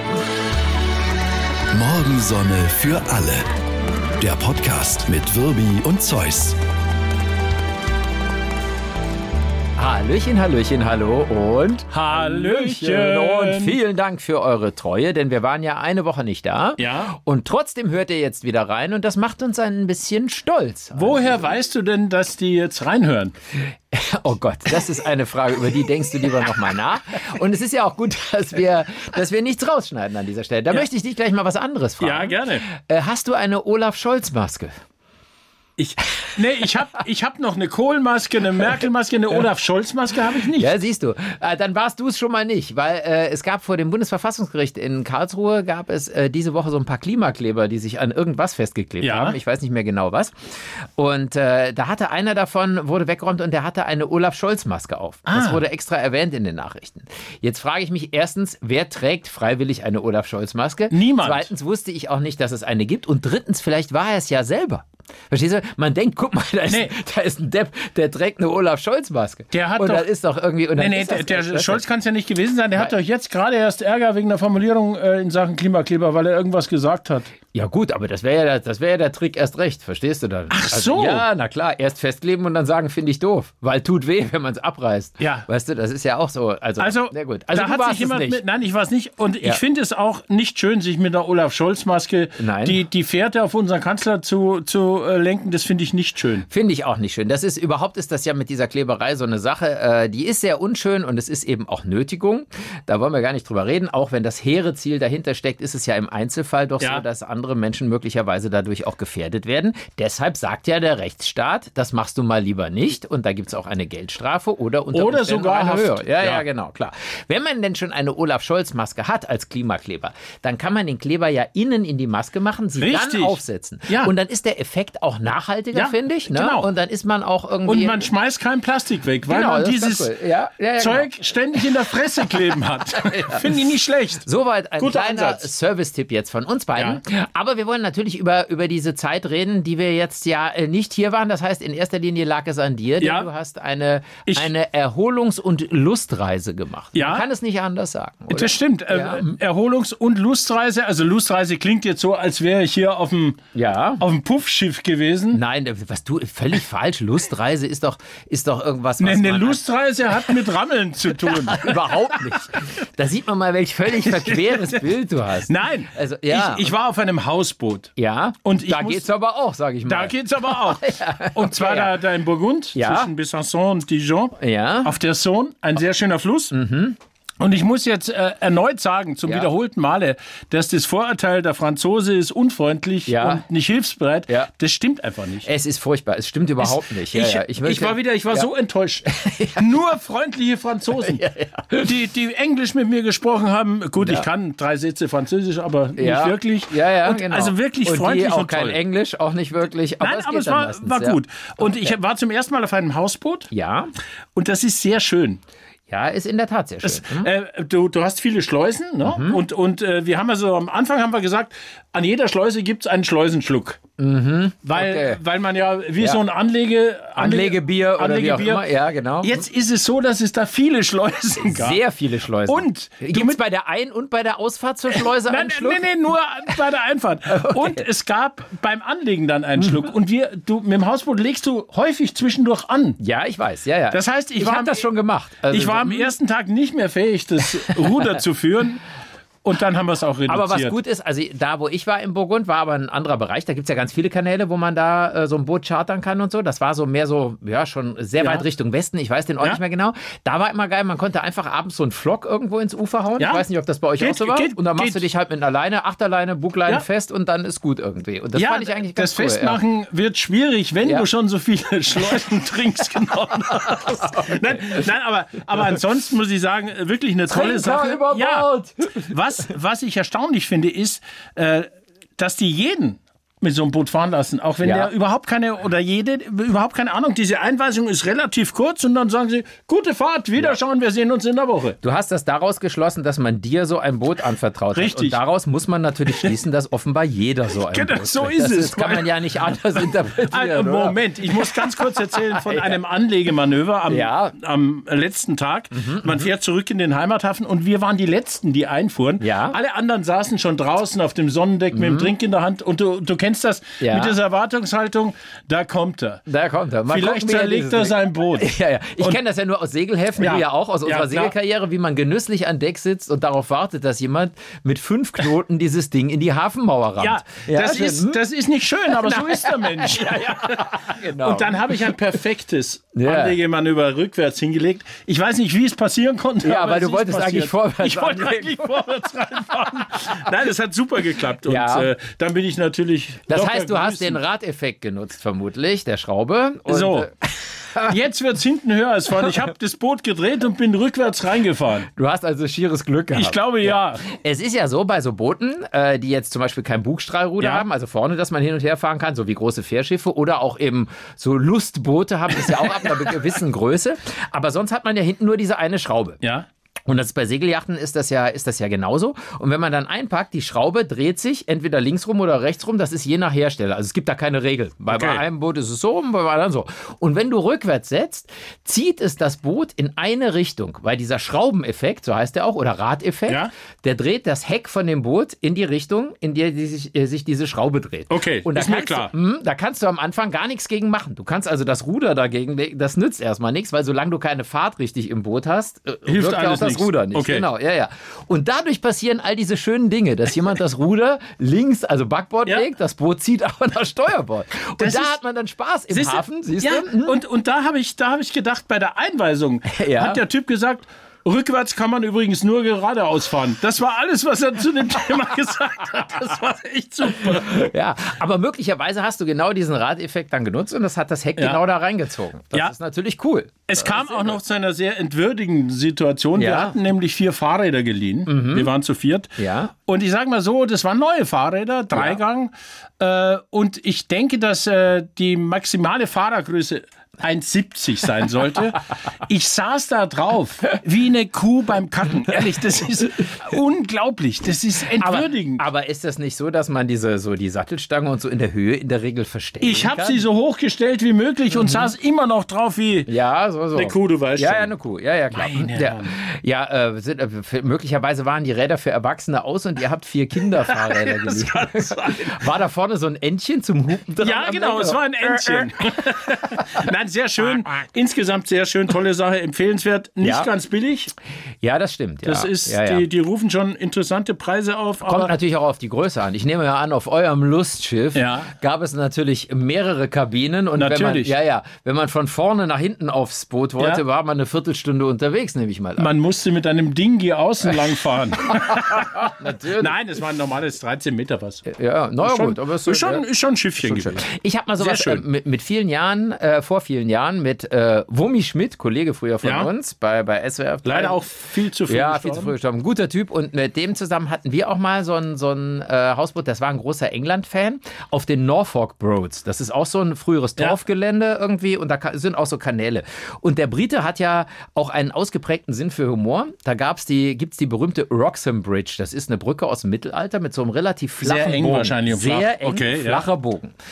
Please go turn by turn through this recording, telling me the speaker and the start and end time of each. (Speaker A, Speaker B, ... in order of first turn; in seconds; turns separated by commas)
Speaker A: 1.7-3.5, Speaker A: 4.2-6.6, Speaker B: 9.8-21.4, Speaker C: 11.9-13.8, Speaker C: 16.8-17.1, Speaker C: 20.9-23.3, Speaker B: 23.6-34.7, Speaker C: 32.0-32.7, Speaker C: 35.8-40.8, Speaker B: 40.5-50.3, Speaker C: 49.0-49.4, Speaker B: 51.0-71.8, Speaker C: 55.3-55.6, Speaker C: 60.9-61.5, Speaker C: 66.7-66.9, Speaker C: 69.5-70.1, Speaker C: 70.8-77.3, Speaker B: 77.5-88.4, Speaker C: 80.5-81.2, Speaker C: 85.2-85.5, Speaker C: 86.8-96.5, Speaker B: 92.4-92.8, Speaker B: 96.5-128.1, Speaker C: 114.9-116.5, Speaker C: 122.8-124.1, Speaker C: 125.7-126.7, Speaker C: 127.7-130.1, Speaker B: 129.3-131.1, Speaker C: 130.8-134.2, Speaker B: 133.1-133.4, Speaker B: 134.2-149.4, Speaker C: 134.8-135.5, Speaker C: 136.8-137.0, Speaker C: 143.0-143.3, Speaker C: 146.9-147.3, Speaker C: 148.3-153.4, Speaker B: 153.5-154.0, Speaker C: 154.0-155.4, Speaker B: 155.3-159.6, Speaker C: 159.0-162.4, Speaker B: 161.2-166.7, Speaker C: 164.0-164.9, Speaker C: 165.4-167.9, Speaker B: 168.0-172.0, Speaker C: 168.4-169.1, Speaker C: 169.9-176.5, Speaker B: 172.8-173.1, Speaker B: 174.4-174.9, Speaker B: 176.5-177.0, Speaker C: 177.4-185.5, Speaker B: 183.1-183.4, Speaker B: 185.4-188.5, Speaker C: 186.6-198.8, Speaker B: 189.1-189.7, Speaker B: 191.1-191.9, Speaker B: 194.0-194.3, Speaker B: 196.0-201.9, Speaker C: 200.0-203.5, Speaker B: 203.5-203.9, Speaker C: 204.3-205.4, Speaker B: 205.9-207.3, Speaker C: 206.8-213.8, Speaker B: 209.0-209.4, Speaker B: 214.0-215.2, Speaker C: 214.7-218.7, Speaker B: 217.2-219.4, Speaker C: 219.2-221.8, Speaker B: 221.4-225.9, Speaker C: 222.5-223.4, Speaker C: 224.9-233.0, Speaker B: 227.3-227.8, Speaker B: 233.0-236.1, Speaker C: 233.9-234.9, Speaker C: 235.5-238.8, Speaker C: 239.4-240.8, Speaker B: 240.3-259.6, Speaker C: 253.2-253.4, Speaker C: 254.0-255.0, Speaker C: 258.4-281.8, Speaker B: 263.8-264.7, Speaker B: 267.3-269.1, Speaker B: 274.6-274.9, Speaker B: 281.8-292.8, Speaker C: 284.8-285.2, Speaker C: 286.1-286.4, Speaker C: 287.7-289.2, Speaker C: 289.8-306.2, Speaker B: 293.9-294.4, Speaker B: 295.7-296.3, Speaker B: 299.2-299.6, Speaker B: 301.7-302.1, Speaker B: 303.8-304.2, Speaker B: 306.3-318.2, Speaker C: 306.9-309.2, Speaker C: 310.2-311.4, Speaker C: 317.0-334.2, Speaker B: 318.8-322.0, Speaker B: 322.9-323.4, Speaker B: 326.4-328.8, Speaker B: 331.4-331.9, Speaker B: 333.3-337.9, Speaker C: 336.7-337.1, Speaker C: 337.9-341.9, Speaker B: 341.9-356.2, Speaker C: 343.1-344.1, Speaker C: 347.4-347.7, Speaker C: 352.5-352.9, Speaker C: 356.2-356.5, Speaker B: 356.9-397.2, Speaker C: 364.9-365.2, Speaker C: 378.1-379.1, Speaker C: 386.1-387.5, Speaker C: 394.8-395.2, Speaker C: 395.9-407.7, Speaker B: 399.7-400.2, Speaker B: 407.2-414.4, Speaker C: 413.7-435.6, Speaker B: 416.4-416.8, Speaker B: 418.3-418.7, Speaker B: 419.4-419.7, Speaker B: 435.0-440.2, Speaker C: 439.6-443.1, Speaker B: 441.5-441.9, Speaker B: 443.1-455.7, Speaker C: 443.8-444.7, Speaker C: 445.3-446.2, Speaker C: 450.7-452.4, Speaker C: 454.2-461.1, Speaker B: 456.5-456.8, Speaker B: 460.2-460.5, Speaker B: 461.6-463.1, Speaker C: 462.2-465.4, Speaker B: 465.0-476.1, Speaker C: 468.1-468.5, Speaker C: 470.8-471.4, Speaker C: 476.0-481.6, Speaker B: 478.6-480.0, Speaker B: 481.6-483.2, Speaker C: 482.2-484.3, Speaker B: 483.8-491.2, Speaker C: 484.8-485.2, Speaker C: 489.4-489.7, Speaker C: 490.8-492.5, Speaker B: 491.9-513.7, Speaker C: 511.2-513.3